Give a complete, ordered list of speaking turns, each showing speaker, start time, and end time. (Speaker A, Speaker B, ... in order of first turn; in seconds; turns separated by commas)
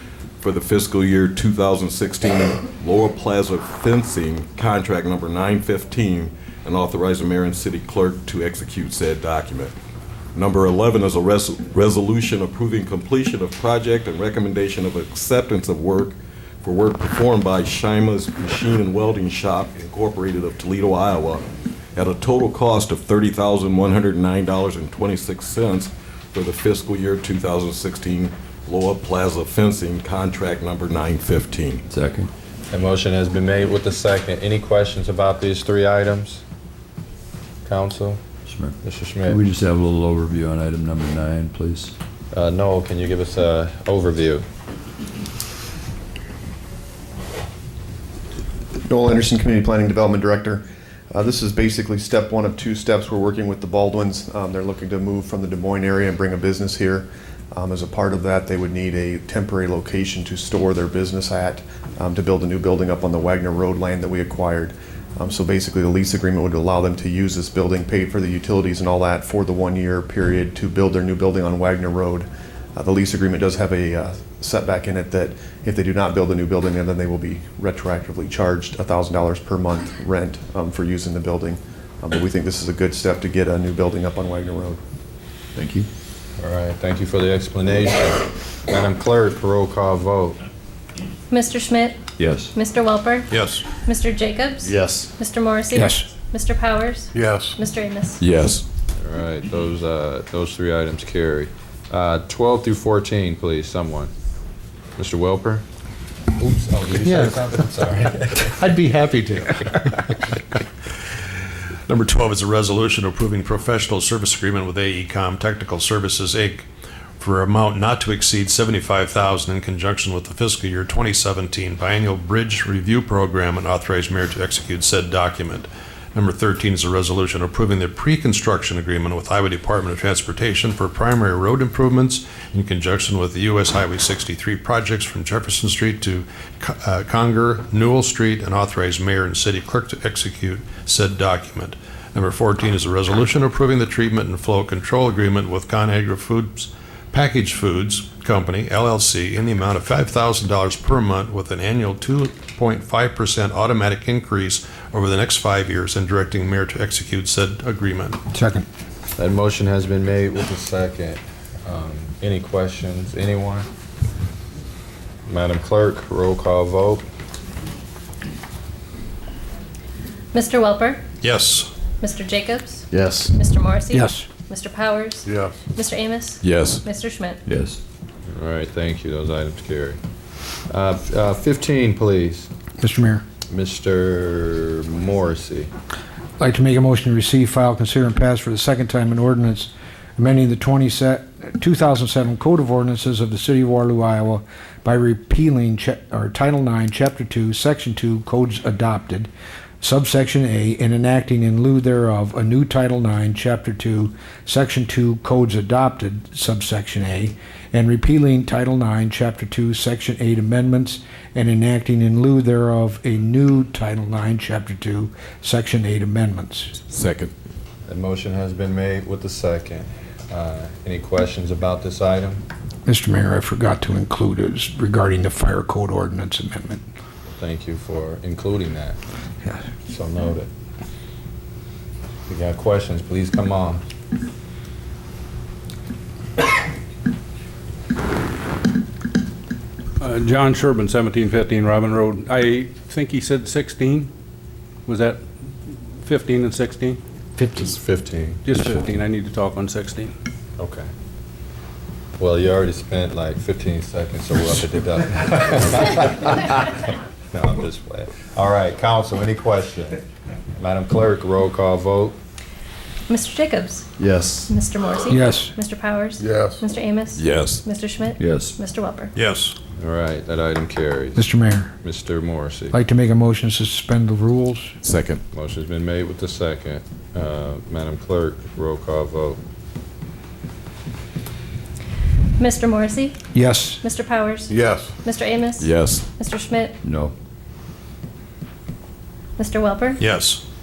Speaker A: 0.4-9.7, Speaker A: 10.3-21.4, Speaker A: 21.9-31.8, Speaker B: 31.9-32.3, Speaker C: 32.7-36.4, Speaker C: 37.6-38.2, Speaker B: 38.5-38.8, Speaker C: 38.8-39.4, Speaker B: 39.3-41.9, Speaker C: 42.3-44.4, Speaker D: 48.9-84.8, Speaker B: 85.5-85.9, Speaker C: 86.4-90.4, Speaker E: 91.3-98.2, Speaker B: 92.2-92.5, Speaker F: 93.3-93.6, Speaker G: 95.7-96.0, Speaker A: 98.2-98.6, Speaker C: 99.0-104.1, Speaker C: 105.0-105.6, Speaker C: 106.3-108.6, Speaker G: 108.6-109.5, Speaker F: 111.9-116.7, Speaker F: 117.2-158.2, Speaker G: 158.3-158.7, Speaker C: 159.1-163.7, Speaker C: 165.2-167.0, Speaker E: 170.3-171.0, Speaker F: 171.2-171.7, Speaker E: 172.0-177.4, Speaker G: 173.9-174.3, Speaker A: 176.4-176.8, Speaker B: 177.4-177.8, Speaker C: 178.3-180.0, Speaker C: 180.7-182.5, Speaker G: 182.8-183.2, Speaker C: 183.5-185.7, Speaker G: 186.4-199.3, Speaker G: 199.8-216.7, Speaker A: 216.9-217.3, Speaker C: 217.8-222.4, Speaker G: 222.8-226.8, Speaker C: 227.3-229.0, Speaker C: 229.8-230.5, Speaker C: 232.3-233.8, Speaker H: 240.0-244.1, Speaker H: 244.9-245.2, Speaker H: 246.0-247.0, Speaker C: 247.4-248.7, Speaker H: 248.4-250.1, Speaker C: 250.6-250.9, Speaker C: 252.2-260.0, Speaker C: 260.6-262.1, Speaker E: 263.1-263.9, Speaker E: 264.5-269.1, Speaker G: 265.1-265.5, Speaker A: 267.1-267.6, Speaker B: 268.2-268.5, Speaker F: 269.1-269.6, Speaker C: 269.8-272.8, Speaker G: 271.1-271.7, Speaker G: 272.7-274.7, Speaker A: 274.8-275.2, Speaker C: 275.3-279.4, Speaker E: 282.4-283.2, Speaker G: 283.3-283.8, Speaker E: 283.8-286.8, Speaker A: 285.6-286.0, Speaker B: 286.8-287.1, Speaker E: 289.4-290.0, Speaker F: 290.0-290.4